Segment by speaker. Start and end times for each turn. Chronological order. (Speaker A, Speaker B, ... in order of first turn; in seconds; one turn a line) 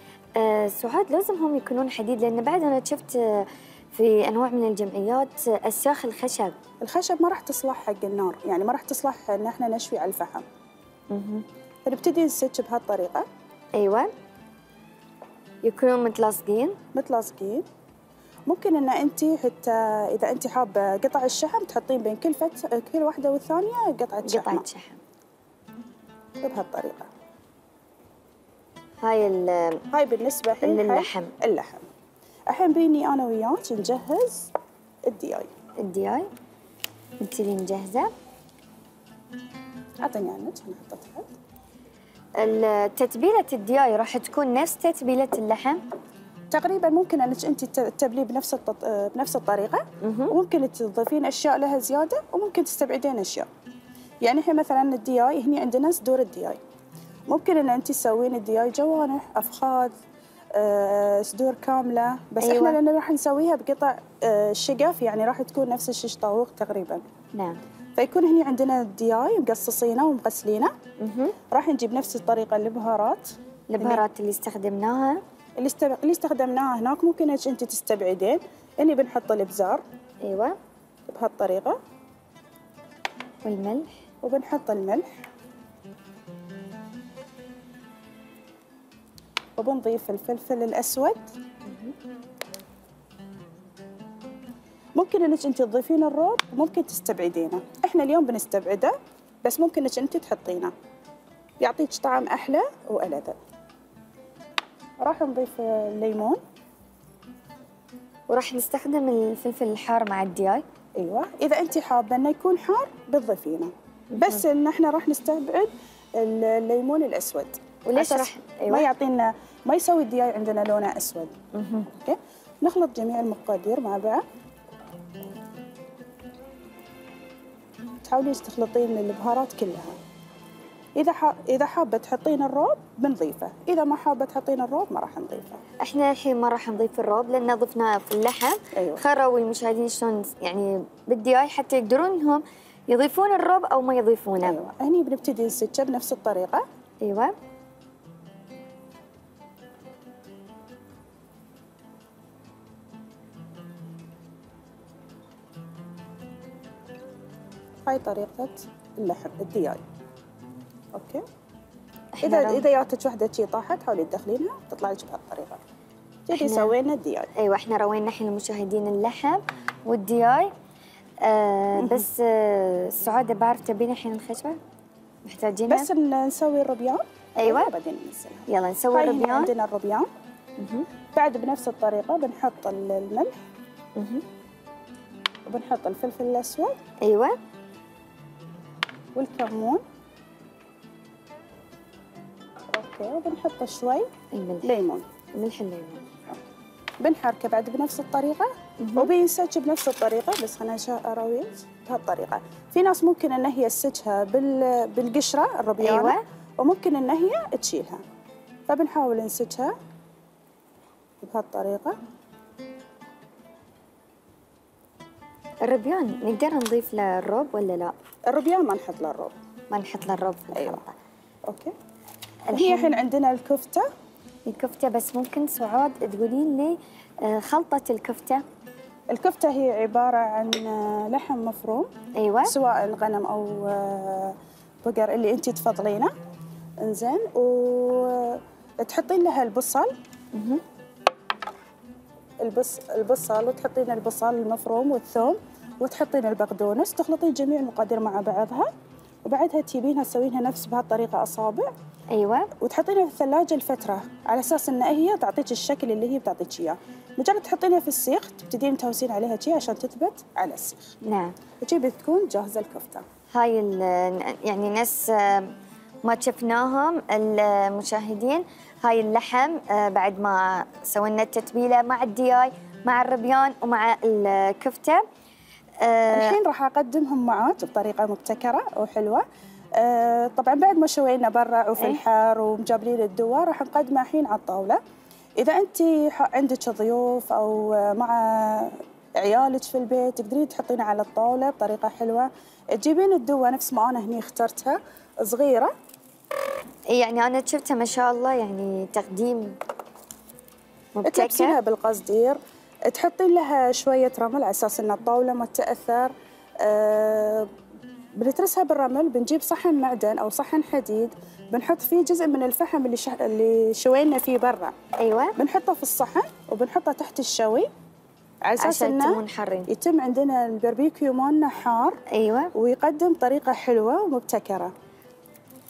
Speaker A: 0.4-6.6
Speaker B: 6.8-10.4
Speaker A: 11.1-11.5
Speaker B: 11.9-13.3
Speaker A: 13.8-14.1
Speaker A: 15.6-16.8
Speaker B: 16.9-17.6
Speaker B: 18.5-24.6
Speaker A: 24.2-25.0
Speaker B: 26.4-27.1
Speaker A: 29.0-29.8
Speaker B: 29.9-31.9
Speaker A: 30.6-31.3
Speaker B: 32.5-34.5
Speaker B: 35.1-35.5
Speaker A: 35.8-36.3
Speaker A: 37.2-38.1
Speaker B: 40.0-41.3
Speaker A: 42.4-45.8
Speaker B: 46.5-53.5
Speaker A: 50.0-50.3
Speaker B: 54.2-56.6
Speaker B: 57.3-59.9
Speaker B: 60.5-67.0
Speaker A: 62.4-62.8
Speaker B: 68.0-70.7
Speaker A: 71.0-71.3
Speaker B: 71.5-74.0
Speaker A: 73.7-75.2
Speaker B: 75.6-79.8
Speaker A: 80.2-80.6
Speaker B: 81.1-81.8
Speaker A: 83.4-84.0
Speaker B: 84.2-85.1
Speaker B: 89.6-91.3
Speaker A: 91.7-92.0
Speaker B: 95.0-100.7
Speaker B: 101.6-103.4
Speaker B: 105.0-106.4
Speaker A: 108.3-110.7
Speaker B: 111.0-121.3
Speaker A: 114.1-114.4
Speaker A: 117.9-118.9
Speaker A: 121.5-121.9
Speaker B: 122.0-124.2
Speaker B: 128.0-130.0
Speaker B: 131.0-135.6
Speaker A: 135.8-144.6
Speaker B: 138.8-139.0
Speaker B: 144.4-146.7
Speaker A: 147.0-147.3
Speaker B: 157.9-159.8
Speaker B: 160.9-161.2
Speaker A: 162.2-162.7
Speaker B: 162.2-165.6
Speaker B: 166.3-167.3
Speaker A: 166.3-166.7
Speaker A: 167.4-170.5
Speaker A: 171.2-174.6
Speaker B: 171.8-172.1
Speaker A: 175.2-175.9
Speaker B: 175.7-180.1
Speaker A: 177.4-177.7
Speaker A: 178.5-179.5
Speaker A: 180.6-180.9
Speaker B: 181.1-183.3
Speaker A: 184.0-184.2
Speaker B: 185.5-186.8
Speaker A: 187.0-187.4
Speaker B: 189.2-189.8
Speaker B: 192.7-194.1
Speaker A: 194.3-194.7
Speaker B: 194.6-195.1
Speaker A: 195.3-196.1
Speaker B: 197.0-208.0
Speaker A: 198.8-199.1
Speaker A: 205.8-206.2
Speaker B: 208.7-209.7
Speaker B: 211.2-212.0
Speaker A: 215.6-218.0
Speaker B: 218.3-219.3
Speaker A: 219.7-220.9
Speaker B: 220.5-220.8
Speaker B: 221.5-221.8
Speaker A: 222.5-223.0
Speaker B: 222.5-223.9
Speaker A: 224.5-228.4
Speaker B: 229.1-231.9
Speaker A: 232.2-232.5
Speaker B: 232.4-236.1
Speaker B: 236.8-239.9
Speaker A: 240.3-240.6
Speaker B: 242.4-248.7
Speaker B: 249.3-251.7
Speaker A: 252.1-252.5
Speaker B: 252.6-261.0
Speaker A: 261.0-261.4
Speaker B: 261.6-263.1
Speaker A: 263.3-275.0
Speaker A: 275.8-276.4
Speaker B: 276.1-279.2
Speaker B: 279.8-284.8
Speaker B: 285.4-295.7
Speaker A: 296.9-299.6
Speaker A: 300.9-301.6
Speaker B: 301.0-307.5
Speaker B: 308.2-314.8
Speaker A: 315.0-315.4
Speaker B: 315.4-317.7
Speaker B: 318.4-322.0
Speaker A: 318.6-319.7
Speaker A: 322.1-322.5
Speaker B: 322.6-324.7